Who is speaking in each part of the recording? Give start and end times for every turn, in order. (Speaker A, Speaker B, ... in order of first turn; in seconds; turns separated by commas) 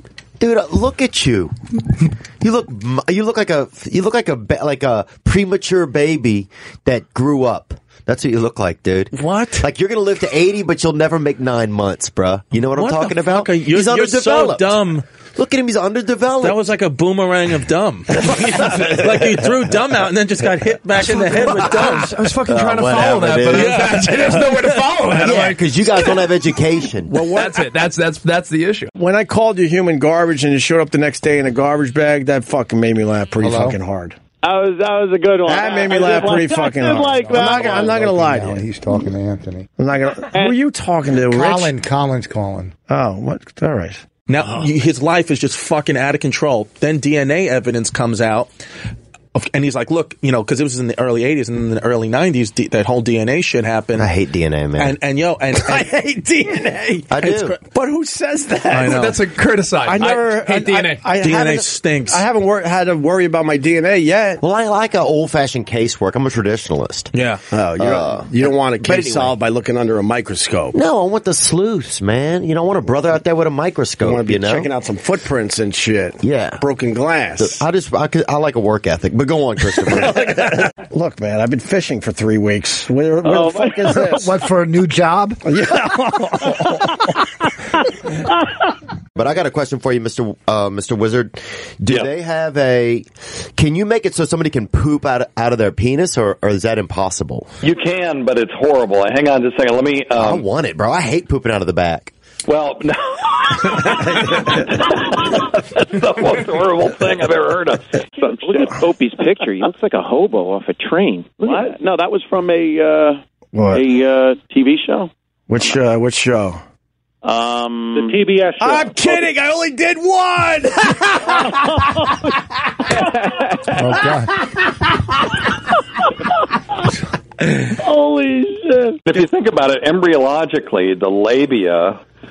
Speaker A: 0.4-1.5, Speaker A: 2.4-16.7, Speaker B: 9.1-9.7, Speaker B: 12.7-15.0, Speaker B: 16.4-22.2, Speaker A: 18.7-19.3, Speaker C: 20.9-26.2, Speaker A: 22.4-24.0, Speaker B: 23.5-24.6, Speaker A: 25.2-27.2, Speaker C: 27.1-28.9, Speaker D: 28.9-34.1, Speaker E: 33.4-33.8, Speaker F: 34.4-37.9, Speaker D: 35.4-38.6, Speaker E: 36.8-39.7, Speaker D: 39.8-41.7, Speaker F: 40.3-40.6, Speaker E: 41.2-42.7, Speaker D: 42.9-44.0, Speaker B: 44.3-48.5, Speaker B: 49.3-54.1, Speaker A: 54.0-55.0, Speaker B: 54.8-55.9, Speaker D: 55.6-57.0, Speaker B: 56.9-57.6, Speaker A: 57.1-57.6, Speaker D: 57.6-59.0, Speaker C: 58.7-61.0, Speaker B: 58.7-59.2, Speaker D: 59.8-64.4, Speaker B: 61.1-62.2, Speaker A: 64.4-69.3, Speaker B: 67.1-67.4, Speaker D: 67.5-70.8, Speaker A: 70.7-74.7, Speaker D: 74.0-77.6, Speaker A: 76.2-76.6, Speaker A: 77.4-80.5, Speaker D: 79.9-84.3, Speaker F: 83.2-83.9, Speaker E: 83.9-85.4, Speaker D: 85.4-87.1, Speaker A: 89.2-97.5, Speaker G: 97.6-100.4, Speaker A: 100.1-102.1, Speaker G: 102.5-108.8, Speaker F: 108.2-113.2, Speaker D: 113.5-113.8, Speaker F: 113.7-115.1, Speaker D: 115.5-116.6, Speaker F: 117.2-119.3, Speaker C: 118.1-118.7, Speaker D: 118.6-122.0, Speaker F: 121.2-122.2, Speaker F: 122.9-123.7, Speaker E: 123.7-124.3, Speaker F: 127.7-128.9, Speaker G: 129.1-132.0